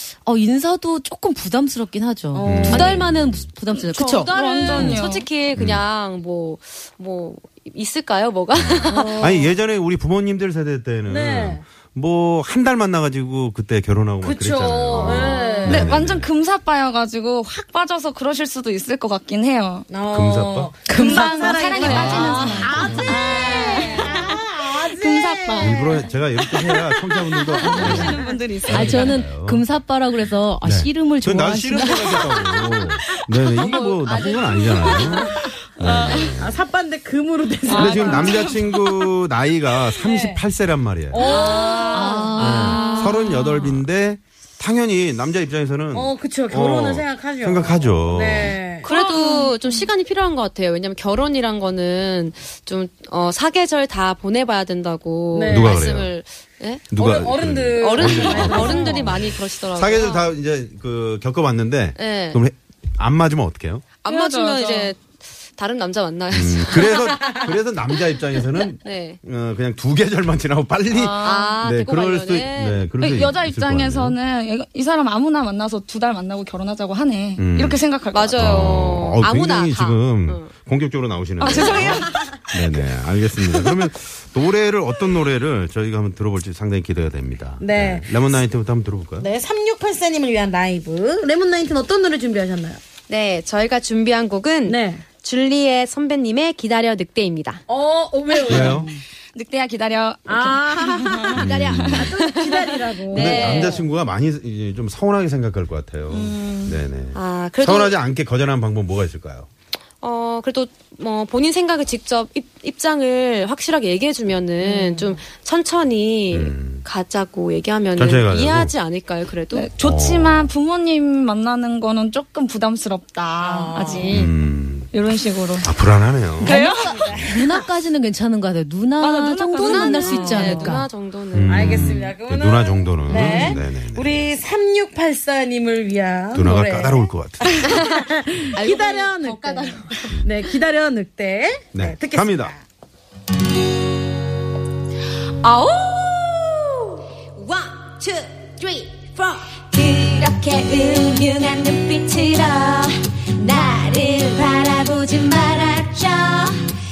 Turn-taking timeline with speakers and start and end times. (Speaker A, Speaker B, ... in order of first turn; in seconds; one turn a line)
Speaker A: 0.2-5.0
Speaker B: 2.3-3.0
Speaker C: 2.4-3.5
Speaker D: 3.8-9.3
Speaker E: 4.3-5.2
Speaker C: 5.5-5.8
Speaker C: 8.5-16.3
Speaker B: 8.9-9.5
Speaker B: 11.1-11.6
Speaker B: 14.2-15.9
Speaker E: 15.2-19.9
Speaker B: 19.9-26.0
Speaker C: 20.1-20.7
Speaker E: 20.9-29.2
Speaker A: 20.9-21.8
Speaker C: 21.7-23.4
Speaker D: 23.4-24.0
Speaker C: 25.6-29.6
Speaker B: 27.7-28.3
Speaker A: 28.7-32.2
Speaker C: 30.6-36.5
Speaker E: 32.0-36.3
Speaker D: 33.7-34.8
Speaker B: 36.4-38.5
Speaker E: 37.6-39.1
Speaker C: 37.7-41.2
Speaker B: 40.0-40.4
Speaker B: 41.1-42.3
Speaker E: 41.2-43.1
Speaker D: 41.2-43.1
Speaker A: 41.9-43.2
Speaker C: 42.4-48.6
Speaker B: 45.9-49.8
Speaker D: 48.8-56.9
Speaker B: 55.3-55.8
Speaker C: 55.5-56.1
Speaker C: 56.9-63.8
Speaker B: 57.0-59.1
Speaker D: 57.8-60.3
Speaker E: 58.5-59.0
Speaker D: 62.0-62.4
Speaker D: 64.0-67.5
Speaker E: 64.0-64.9
Speaker C: 66.3-74.2
Speaker D: 68.8-69.2
Speaker E: 70.9-71.6
Speaker D: 71.0-72.9
Speaker E: 73.0-78.8
Speaker C: 77.4-77.8
Speaker D: 78.1-80.5
Speaker C: 78.3-89.3
Speaker E: 81.4-82.3
Speaker D: 81.4-82.0
Speaker B: 87.6-88.1
Speaker B: 89.2-92.8
Speaker D: 93.1-97.6
Speaker B: 94.7-95.0
Speaker B: 97.7-98.9
Speaker C: 98.5-98.9
Speaker E: 99.3-101.9
Speaker B: 100.3-103.8
Speaker C: 101.3-102.2
Speaker D: 101.3-103.8
Speaker C: 103.1-109.5
Speaker E: 106.1-106.8
Speaker D: 107.1-108.0
Speaker D: 110.0-119.7
Speaker E: 114.6-115.2
Speaker C: 116.3-116.8
Speaker C: 118.0-118.7
Speaker E: 119.5-124.3
Speaker C: 119.8-120.5
Speaker B: 123.4-124.1
Speaker C: 124.1-124.9
Speaker E: 124.9-125.7
Speaker C: 125.6-126.6
Speaker E: 126.4-127.1
Speaker B: 126.5-127.4
Speaker A: 127.2-130.8
Speaker E: 129.0-130.8
Speaker D: 129.5-132.0
Speaker C: 131.3-134.3
Speaker B: 131.5-142.6
Speaker C: 136.3-137.6
Speaker D: 137.6-138.0
Speaker D: 138.5-140.1
Speaker C: 141.7-142.5
Speaker F: 145.4-146.7
Speaker F: 147.4-156.5